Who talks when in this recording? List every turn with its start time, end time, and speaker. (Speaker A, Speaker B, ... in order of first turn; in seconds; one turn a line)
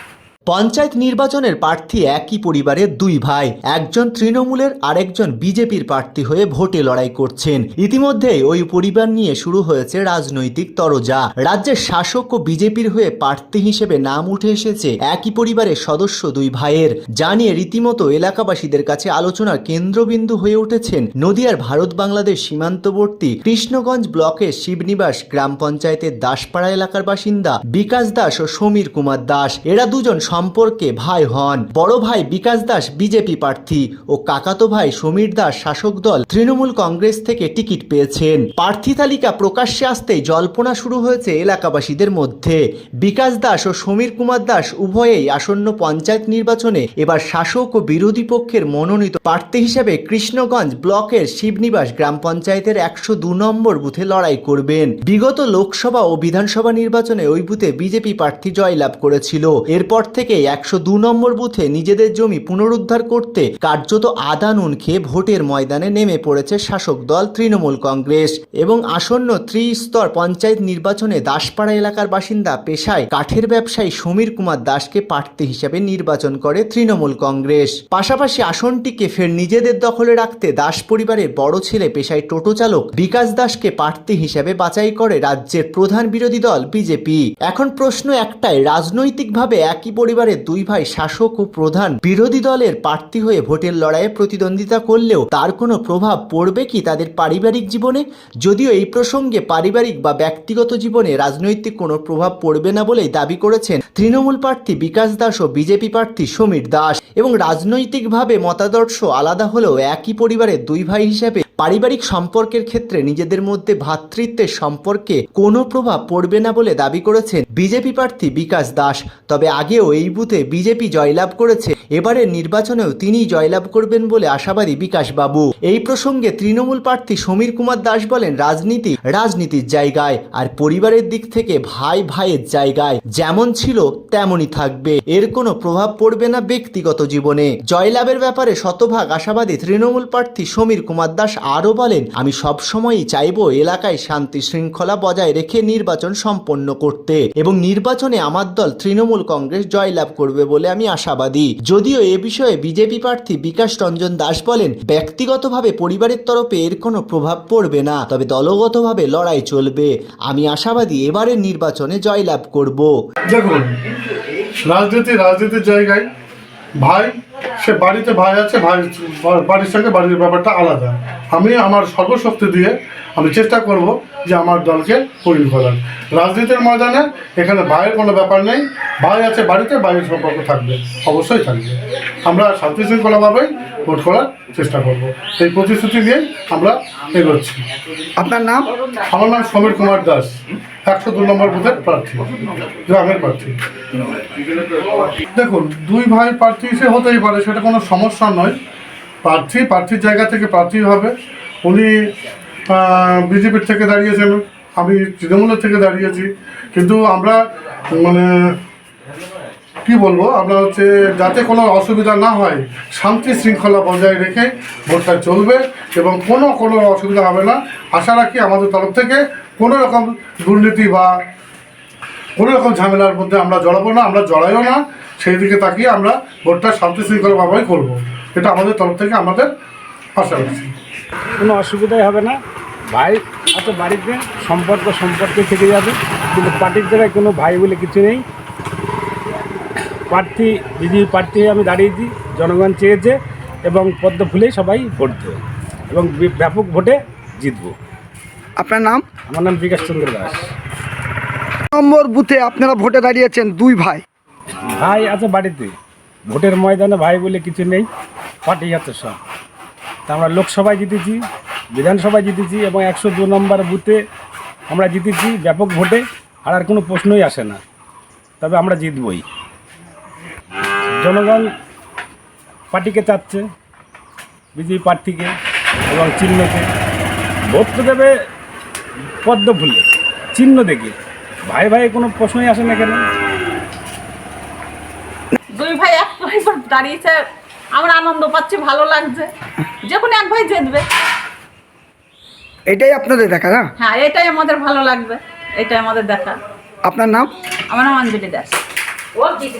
Speaker A: 0.5-162.9
Speaker B: 163.3-163.8
Speaker B: 164.7-166.1
Speaker B: 166.8-187.6
Speaker C: 188.2-188.7
Speaker B: 189.1-190.3
Speaker B: 190.8-193.6
Speaker B: 195.3-198.6
Speaker B: 199.2-201.1
Speaker B: 201.6-201.9
Speaker B: 202.7-207.4
Speaker B: 207.9-208.3
Speaker B: 209.8-221.1
Speaker B: 222.4-229.5
Speaker B: 230.2-230.7
Speaker D: 231.4-232.4
Speaker D: 232.9-238.2
Speaker D: 240.1-247.7
Speaker C: 248.6-249.0
Speaker D: 249.3-250.5
Speaker C: 251.7-254.1
Speaker D: 254.6-255.7
Speaker D: 256.3-257.9
Speaker D: 258.4-259.2
Speaker D: 260.1-261.2
Speaker D: 261.7-264.0
Speaker D: 264.7-267.6
Speaker D: 268.4-269.2
Speaker D: 271.0-271.5
Speaker D: 272.7-273.4
Speaker D: 274.5-275.3
Speaker D: 275.9-276.7
Speaker D: 277.5-278.1
Speaker D: 279.2-280.9
Speaker D: 281.5-283.0
Speaker E: 285.5-287.2
Speaker E: 287.7-289.3
Speaker E: 289.8-290.9
Speaker C: 292.7-293.7
Speaker E: 293.8-296.4
Speaker C: 296.8-297.3
Speaker E: 297.7-298.6